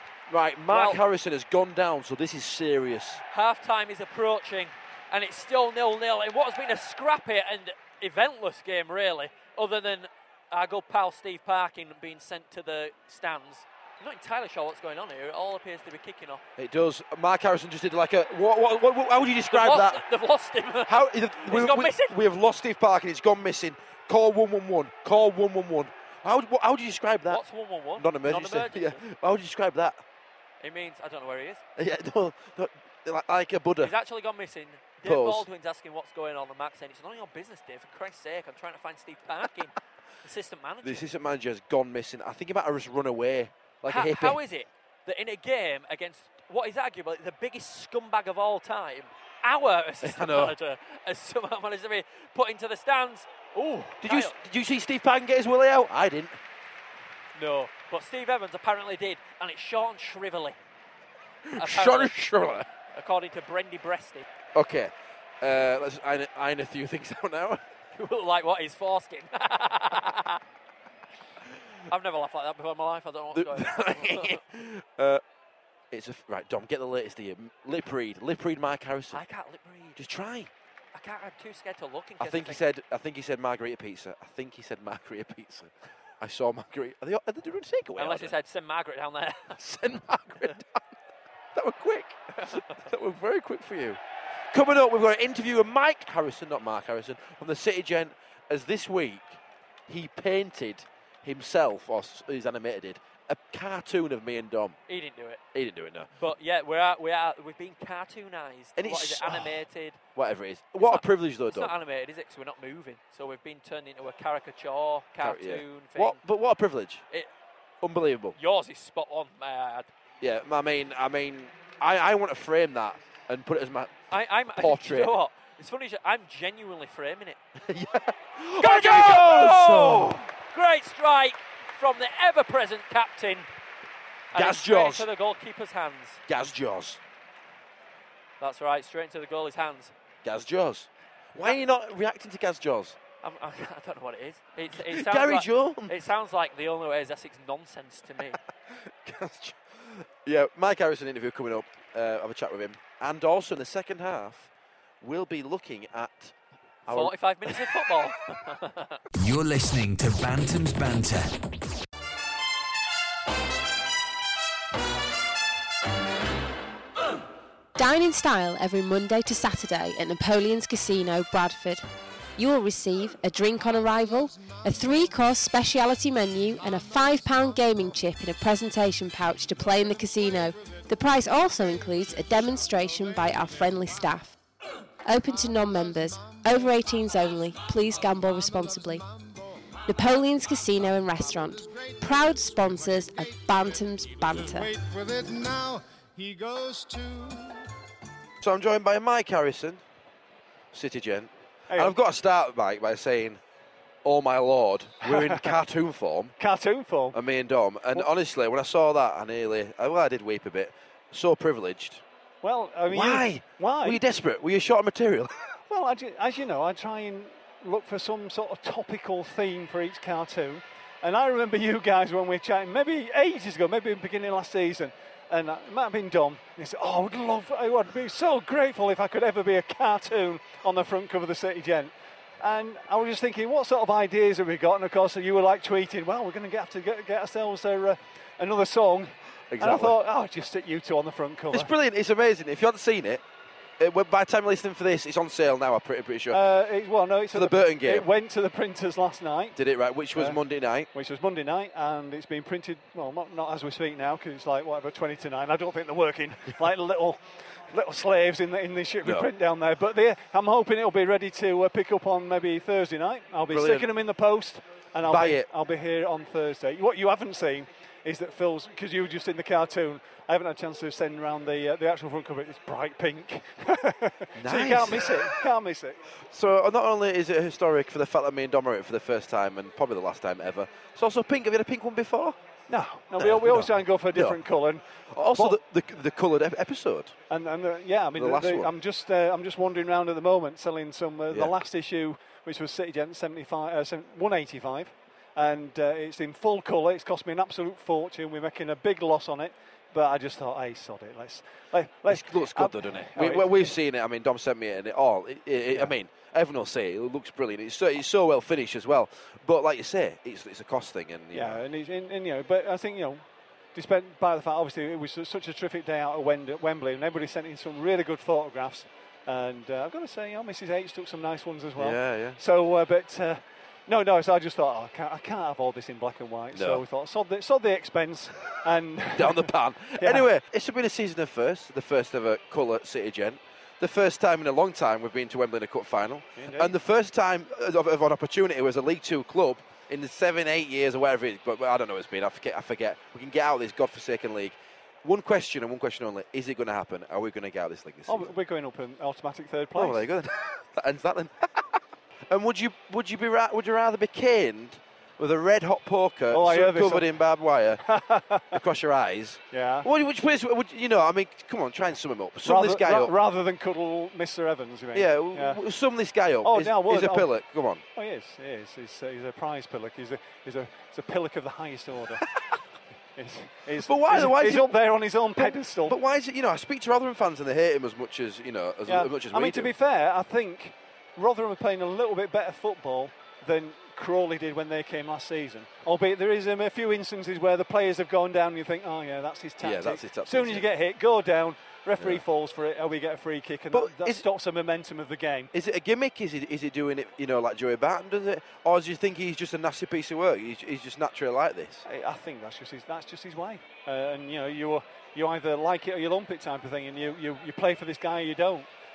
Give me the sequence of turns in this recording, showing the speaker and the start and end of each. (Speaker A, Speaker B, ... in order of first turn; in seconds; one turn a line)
Speaker A: 0.3-3.2
Speaker B: 0.7-1.0
Speaker B: 3.3-16.4
Speaker A: 16.6-20.1
Speaker B: 19.5-22.2
Speaker A: 20.9-27.4
Speaker B: 27.3-29.0
Speaker A: 28.0-30.0
Speaker B: 30.6-31.6
Speaker A: 31.8-34.0
Speaker B: 33.8-41.1
Speaker A: 35.0-35.5
Speaker A: 40.8-44.4
Speaker B: 43.9-54.4
Speaker A: 50.0-50.5
Speaker A: 54.0-56.4
Speaker B: 57.4-60.6
Speaker A: 61.5-62.7
Speaker B: 61.6-62.2
Speaker B: 62.9-64.2
Speaker A: 64.5-67.6
Speaker B: 68.0-70.4
Speaker B: 71.9-74.4
Speaker A: 73.3-75.2
Speaker A: 75.9-79.2
Speaker B: 79.1-80.0
Speaker A: 80.0-80.5
Speaker B: 81.0-82.6
Speaker A: 82.2-88.3
Speaker B: 88.0-89.6
Speaker A: 89.6-91.0
Speaker A: 91.5-94.0
Speaker B: 92.4-92.9
Speaker A: 94.5-104.8
Speaker B: 104.9-105.4
Speaker A: 105.5-106.1
Speaker B: 106.2-110.0
Speaker A: 108.8-109.6
Speaker A: 110.2-111.7
Speaker B: 110.8-116.2
Speaker A: 115.2-117.0
Speaker A: 117.8-118.4
Speaker B: 118.4-119.9
Speaker A: 120.2-124.0
Speaker B: 124.1-127.4
Speaker A: 124.5-125.2
Speaker A: 127.6-130.2
Speaker B: 128.6-133.5
Speaker B: 134.3-136.2
Speaker A: 134.3-135.1
Speaker A: 136.3-137.0
Speaker B: 138.4-139.9
Speaker A: 140.2-143.0
Speaker B: 143.2-148.4
Speaker A: 144.7-146.0
Speaker A: 148.7-154.5
Speaker A: 155.0-156.3
Speaker A: 156.9-157.8
Speaker B: 156.9-159.0
Speaker C: 159.2-161.3
Speaker D: 167.8-171.8
Speaker D: 172.4-184.4
Speaker E: 173.6-175.2
Speaker E: 176.5-178.0
Speaker E: 179.5-184.2
Speaker D: 185.1-189.0
Speaker E: 185.3-197.7
Speaker D: 189.9-194.7
Speaker A: 198.4-199.8
Speaker A: 200.7-203.4
Speaker A: 204.0-206.3
Speaker F: 205.0-205.6
Speaker F: 206.4-207.2
Speaker A: 207.1-212.0
Speaker F: 212.4-214.0
Speaker A: 212.9-215.6
Speaker F: 215.7-241.7
Speaker A: 239.5-240.0
Speaker A: 241.5-243.2
Speaker A: 243.8-246.4
Speaker F: 246.3-249.6
Speaker A: 247.3-248.1
Speaker A: 249.6-250.9
Speaker F: 250.9-276.0
Speaker A: 259.0-259.3
Speaker A: 263.5-263.9
Speaker A: 265.1-265.5
Speaker A: 274.4-275.4
Speaker A: 276.2-282.4
Speaker F: 282.7-285.6
Speaker A: 283.2-284.4
Speaker A: 285.1-287.1
Speaker F: 287.3-303.7
Speaker A: 288.1-288.7
Speaker A: 291.3-291.6
Speaker A: 302.1-311.6
Speaker F: 311.3-330.3
Speaker A: 321.8-322.4
Speaker A: 326.5-326.8
Speaker A: 329.1-348.3
Speaker F: 336.4-336.7
Speaker F: 348.1-350.1
Speaker A: 349.8-357.8
Speaker F: 356.3-357.1
Speaker F: 357.8-358.6
Speaker A: 358.5-363.2
Speaker F: 359.5-359.9
Speaker F: 362.4-365.6
Speaker A: 364.9-367.8
Speaker F: 366.4-367.3
Speaker F: 368.0-372.3
Speaker F: 373.2-376.0
Speaker A: 373.8-374.8
Speaker A: 375.3-379.7
Speaker F: 378.9-395.5
Speaker A: 389.6-390.7
Speaker A: 392.0-392.2
Speaker A: 393.7-394.3
Speaker A: 395.5-401.9
Speaker F: 401.9-408.7